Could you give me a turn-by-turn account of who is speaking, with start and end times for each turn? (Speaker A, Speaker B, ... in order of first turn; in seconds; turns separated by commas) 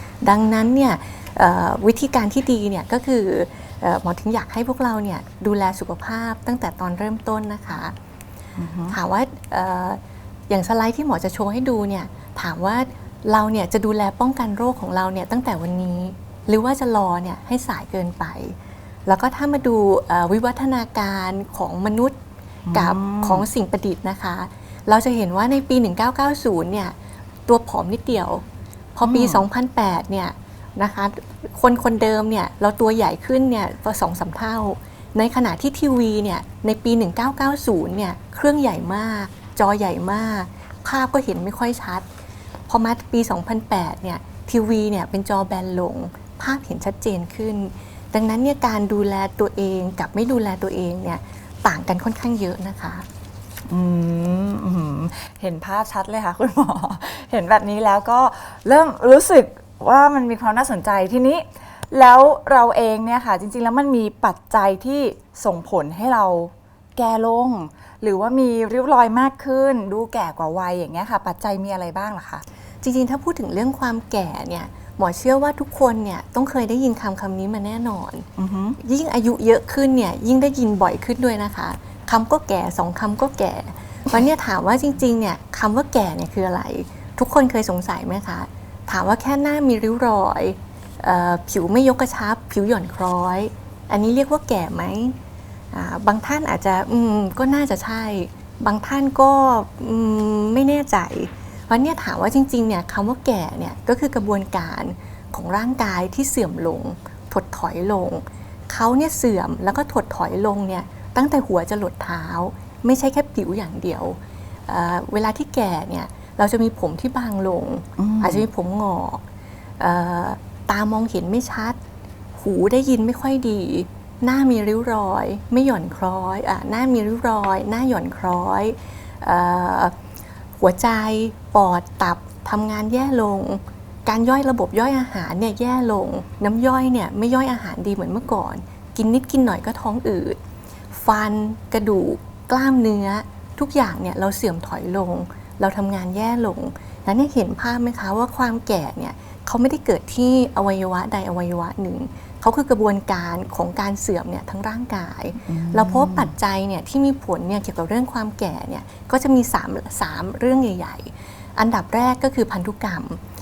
Speaker A: 0.2-7.9, Speaker B: 8.6-9.0, Speaker A: 8.9-18.6, Speaker A: 19.1-22.1, Speaker B: 22.7-23.4, Speaker A: 22.7-26.9, Speaker A: 27.4-28.4, Speaker A: 28.9-42.0, Speaker B: 29.0-29.4, Speaker A: 42.7-53.0, Speaker B: 53.7-72.4, Speaker A: 72.8-78.3, Speaker B: 78.4-78.8, Speaker A: 78.8-95.2, Speaker A: 95.7-119.2, Speaker B: 118.0-118.5, Speaker A: 119.8-121.8, Speaker A: 122.3-129.9, Speaker A: 130.6-140.4, Speaker A: 140.9-163.2, Speaker B: 155.5-156.3